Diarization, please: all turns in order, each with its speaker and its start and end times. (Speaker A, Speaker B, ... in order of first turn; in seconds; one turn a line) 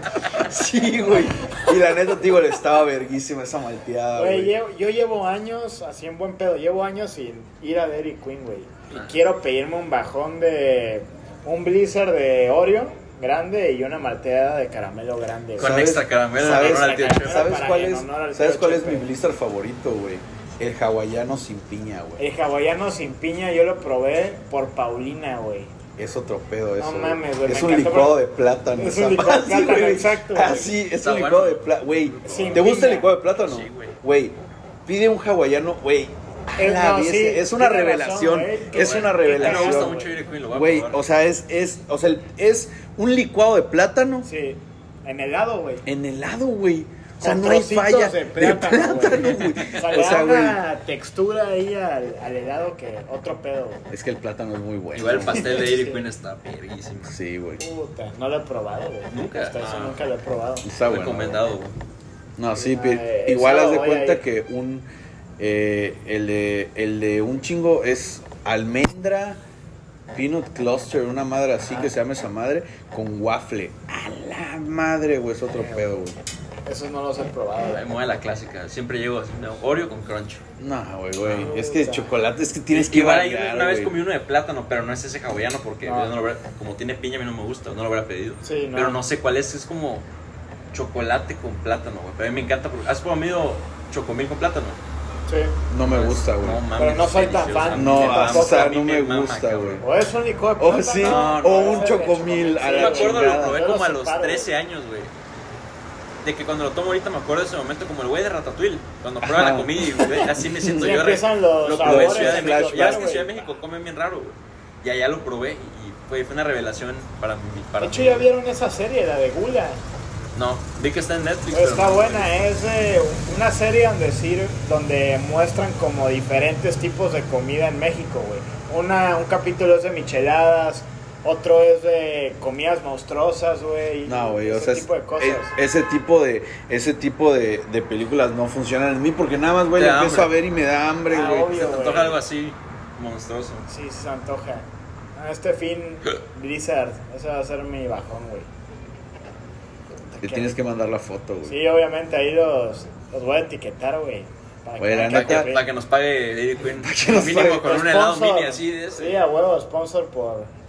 Speaker A: 0.3-4.5
Speaker B: 4.2-15.7
Speaker C: 15.6-17.5
Speaker A: 15.6-22.2
Speaker B: 16.4-19.1
Speaker B: 22.2-25.7
Speaker A: 26.0-40.0
Speaker B: 26.8-28.2
Speaker B: 28.8-30.7
Speaker C: 30.9-31.7
Speaker C: 32.2-32.7
Speaker B: 32.2-33.1
Speaker C: 33.3-34.0
Speaker B: 36.6-40.1
Speaker C: 38.7-41.0
Speaker A: 40.5-44.3
Speaker B: 44.2-45.8
Speaker A: 45.9-50.6
Speaker B: 47.2-53.8
Speaker A: 53.9-55.7
Speaker C: 54.9-57.1
Speaker B: 55.3-56.0
Speaker A: 57.0-57.6
Speaker B: 57.6-60.7
Speaker C: 59.1-60.0
Speaker A: 60.6-61.4
Speaker C: 60.8-61.7
Speaker A: 62.4-64.9
Speaker B: 62.5-64.2
Speaker A: 65.4-69.4
Speaker A: 70.1-76.2
Speaker B: 75.5-75.9
Speaker B: 76.7-77.8
Speaker C: 77.6-80.4
Speaker A: 80.6-83.9
Speaker B: 81.2-82.1
Speaker C: 82.7-90.0
Speaker B: 85.8-86.1
Speaker B: 88.4-89.0
Speaker C: 90.7-94.8
Speaker B: 95.3-95.6
Speaker A: 95.7-96.6
Speaker C: 95.8-99.8
Speaker B: 96.8-98.7
Speaker A: 97.7-99.8
Speaker B: 99.8-104.5
Speaker A: 100.6-103.6
Speaker C: 101.0-101.9
Speaker C: 102.6-105.1
Speaker C: 106.2-118.3
Speaker A: 109.2-111.0
Speaker B: 110.7-113.5
Speaker A: 111.8-113.2
Speaker B: 117.8-119.8
Speaker C: 120.3-122.5
Speaker B: 121.5-135.5
Speaker A: 134.0-141.6
Speaker C: 139.7-140.3
Speaker B: 141.1-142.2
Speaker C: 141.2-143.7
Speaker B: 143.7-144.6
Speaker B: 145.2-148.5
Speaker B: 150.1-150.6
Speaker A: 150.2-151.6
Speaker B: 151.4-155.7
Speaker A: 154.8-155.5
Speaker C: 155.0-159.2
Speaker A: 156.7-157.7
Speaker B: 157.3-160.5